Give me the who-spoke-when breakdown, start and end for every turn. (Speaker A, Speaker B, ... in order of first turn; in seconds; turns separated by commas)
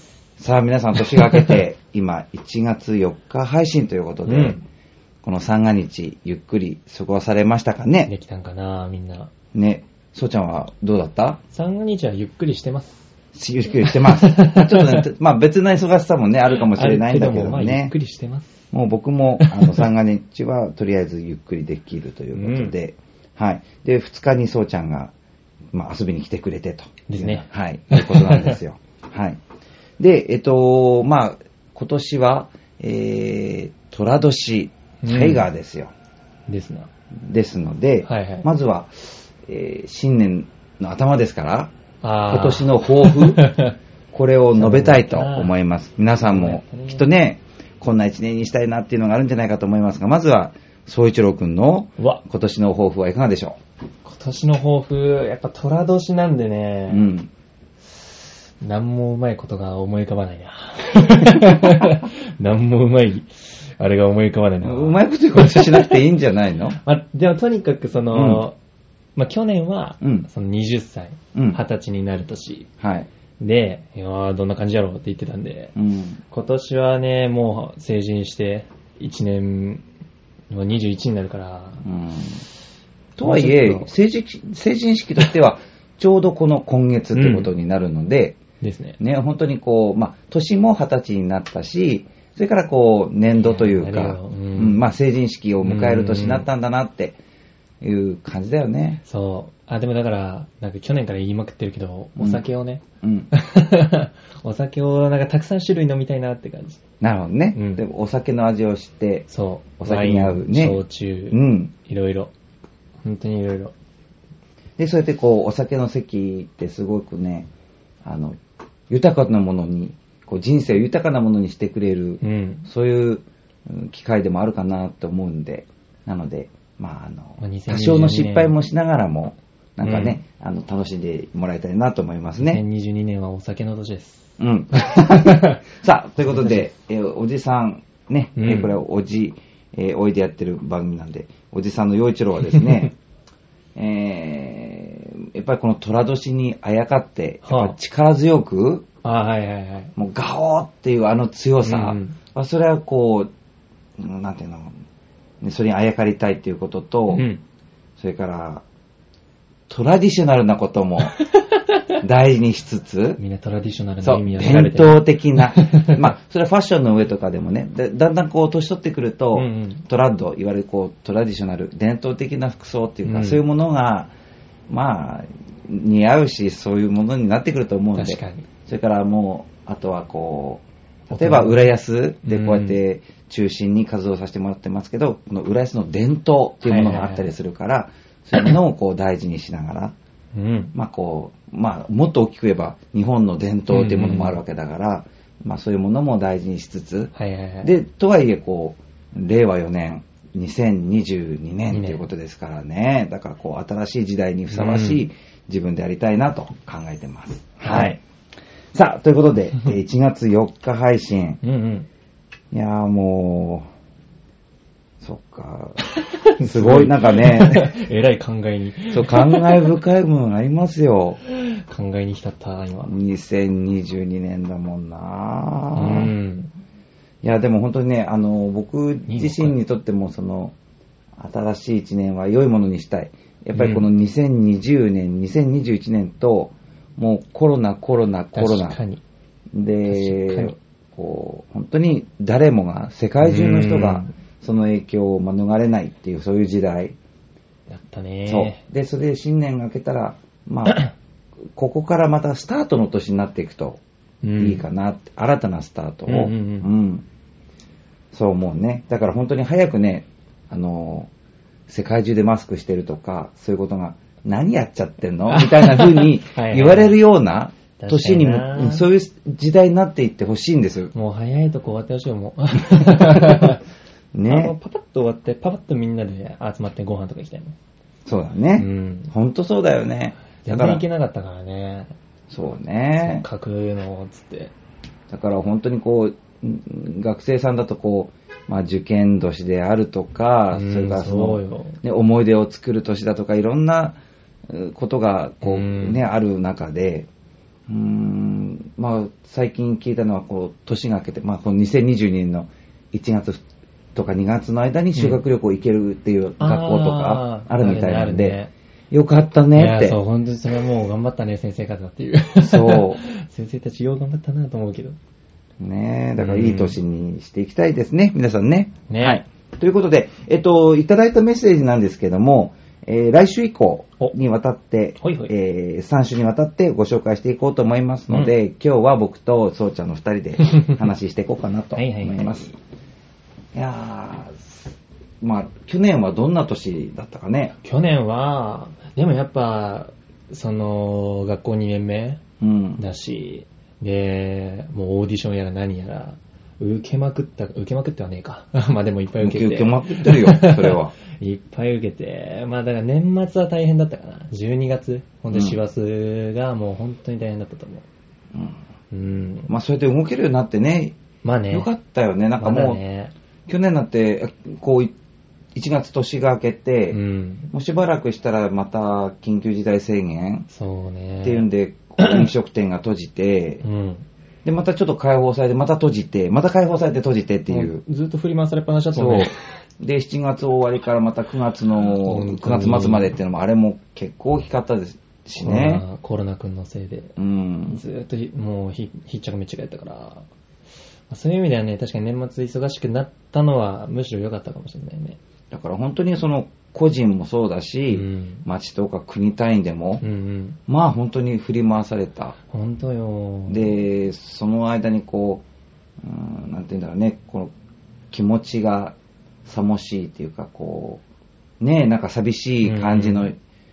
Speaker A: 0.4-4.6, Speaker B: 4.3-4.6, Speaker A: 5.2-8.1, Speaker B: 8.1-9.3, Speaker A: 9.5-11.4, Speaker B: 11.5-13.1, Speaker A: 13.3-17.9, Speaker B: 13.8-15.1, Speaker B: 16.7-18.6, Speaker A: 18.7-25.1, Speaker B: 19.4-19.9, Speaker B: 22.4-22.7, Speaker A: 25.7-29.4, Speaker B: 27.1-28.6, Speaker A: 30.0-35.9, Speaker B: 35.0-35.5, Speaker B: 36.5-36.9, Speaker A: 37.2-41.7, Speaker B: 38.0-38.5, Speaker B: 42.0-43.8, Speaker A: 42.3-43.5, Speaker A: 44.1-53.6, Speaker B: 44.5-45.5, Speaker B: 46.2-47.1, Speaker B: 52.0-52.2, Speaker B: 54.0-57.1, Speaker A: 56.9-57.3, Speaker B: 57.9-66.1, Speaker A: 64.6-66.8, Speaker B: 66.8-68.6, Speaker A: 68.1-68.5, Speaker B: 69.2-72.7, Speaker A: 70.0-70.3, Speaker A: 72.8-73.1, Speaker B: 73.4-75.8, Speaker A: 75.8-76.2, Speaker B: 76.3-79.8, Speaker B: 80.5-81.8, Speaker A: 81.8-82.4, Speaker A: 83.2-88.4, Speaker B: 83.2-83.9, Speaker B: 87.1-87.5, Speaker B: 88.6-89.0, Speaker A: 89.0-97.2, Speaker B: 93.3-94.9, Speaker B: 95.6-96.5, Speaker A: 97.8-99.0, Speaker B: 99.0-106.8, Speaker A: 102.2-102.4, Speaker A: 103.0-103.3, Speaker A: 107.0-109.3, Speaker B: 107.5-107.8, Speaker B: 109.3-112.3, Speaker A: 109.8-111.7, Speaker B: 113.0-113.7, Speaker A: 114.8-117.5, Speaker A: 118.0-118.4, Speaker A: 118.9-132.6, Speaker B: 122.2-122.7, Speaker B: 127.4-128.6, Speaker B: 129.8-130.2, Speaker B: 132.4-135.6, Speaker A: 134.4-143.0, Speaker B: 136.2-136.7, Speaker B: 138.4-138.8, Speaker B: 142.5-142.7, Speaker A: 143.8-148.9, Speaker B: 147.4-147.8, Speaker B: 149.0-149.9, Speaker A: 150.0-153.3, Speaker B: 151.6-152.2, Speaker A: 154.0-154.7, Speaker A: 155.4-157.2, Speaker B: 157.1-157.4, Speaker A: 158.0-158.6, Speaker A: 159.7-161.2, Speaker B: 161.2-162.0, Speaker A: 162.0-163.2, Speaker B: 163.2-166.1, Speaker A: 164.0-174.1, Speaker B: 169.3-169.8, Speaker B: 173.1-173.4, Speaker A: 174.7-189.9, Speaker B: 177.9-178.5, Speaker B: 181.1-181.7, Speaker B: 182.2-182.8, Speaker B: 186.6-187.3, Speaker B: 190.3-190.7, Speaker A: 190.7-208.0, Speaker B: 193.7-194.4, Speaker B: 197.2-197.7, Speaker B: 201.7-202.0, Speaker B: 204.5-205.1, Speaker B: 207.6-208.0, Speaker A: 208.7-211.4, Speaker B: 211.4-211.9, Speaker A: 212.5-213.7, Speaker A: 215.0-217.8, Speaker B: 215.8-219.8, Speaker A: 218.9-221.2, Speaker B: 221.2-222.9, Speaker A: 222.8-226.1, Speaker B: 225.8-226.5, Speaker A: 227.2-230.6, Speaker B: 229.1-229.6, Speaker A: 231.2-238.8, Speaker B: 233.5-233.9, Speaker B: 238.3-239.0, Speaker A: 239.5-247.0, Speaker B: 239.9-240.6, Speaker B: 243.2-244.1, Speaker B: 247.7-248.6, Speaker A: 248.3-250.9, Speaker B: 250.7-250.9, Speaker A: 251.6-253.8, Speaker B: 254.2-254.7, Speaker A: 254.4-257.1, Speaker B: 256.1-256.7, Speaker A: 258.1-261.1, Speaker A: 261.7-270.9, Speaker B: 265.3-267.0, Speaker B: 267.8-268.9, Speaker B: 270.9-273.6, Speaker A: 272.9-273.4, Speaker A: 274.1-274.5, Speaker B: 274.3-277.6, Speaker A: 278.1-280.8, Speaker B: 278.6-279.1, Speaker B: 280.4-281.9, Speaker A: 282.3-283.2, Speaker B: 283.0-284.5, Speaker A: 285.1-294.0, Speaker B: 290.5-291.8, Speaker A: 294.5-297.1, Speaker B: 295.4-296.0, Speaker A: 297.7-303.4, Speaker A: 303.9-308.4, Speaker B: 304.9-305.2, Speaker B: 306.4-308.5, Speaker A: 308.9-310.0, Speaker B: 309.6-315.0, Speaker A: 312.4-313.0, Speaker A: 315.6-332.5, Speaker B: 316.2-316.8, Speaker B: 318.9-319.2, Speaker B: 325.0-325.3, Speaker B: 331.8-332.4, Speaker A: 333.6-334.6, Speaker A: 335.2-337.6, Speaker B: 337.6-342.2, Speaker A: 342.4-342.8, Speaker B: 342.8-357.9, Speaker A: 349.2-351.0, Speaker A: 355.3-355.6, Speaker B: 358.9-359.5, Speaker A: 359.5-361.0, Speaker B: 361.2-361.7, Speaker A: 361.5-362.8, Speaker B: 362.4-363.1, Speaker A: 363.5-364.9, Speaker A: 365.6-367.0, Speaker B: 366.9-367.5, Speaker A: 367.5-370.5, Speaker B: 370.5-371.5, Speaker A: 371.2-373.6, Speaker B: 372.0-372.3, Speaker B: 373.6-374.1, Speaker A: 374.4-377.8, Speaker B: 377.5-379.4, Speaker A: 378.9-385.8, Speaker B: 381.9-383.1, Speaker B: 385.4-387.1, Speaker A: 387.2-387.8, Speaker B: 387.7-390.3, Speaker B: 391.1-395.2, Speaker A: 395.5-400.0, Speaker B: 397.9-398.4, Speaker B: 400.0-400.6, Speaker A: 400.7-402.4, Speaker B: 402.5-403.8, Speaker A: 403.5-405.4, Speaker A: 406.0-407.5, Speaker A: 408.1-411.0, Speaker A: 411.6-413.4, Speaker B: 412.6-413.3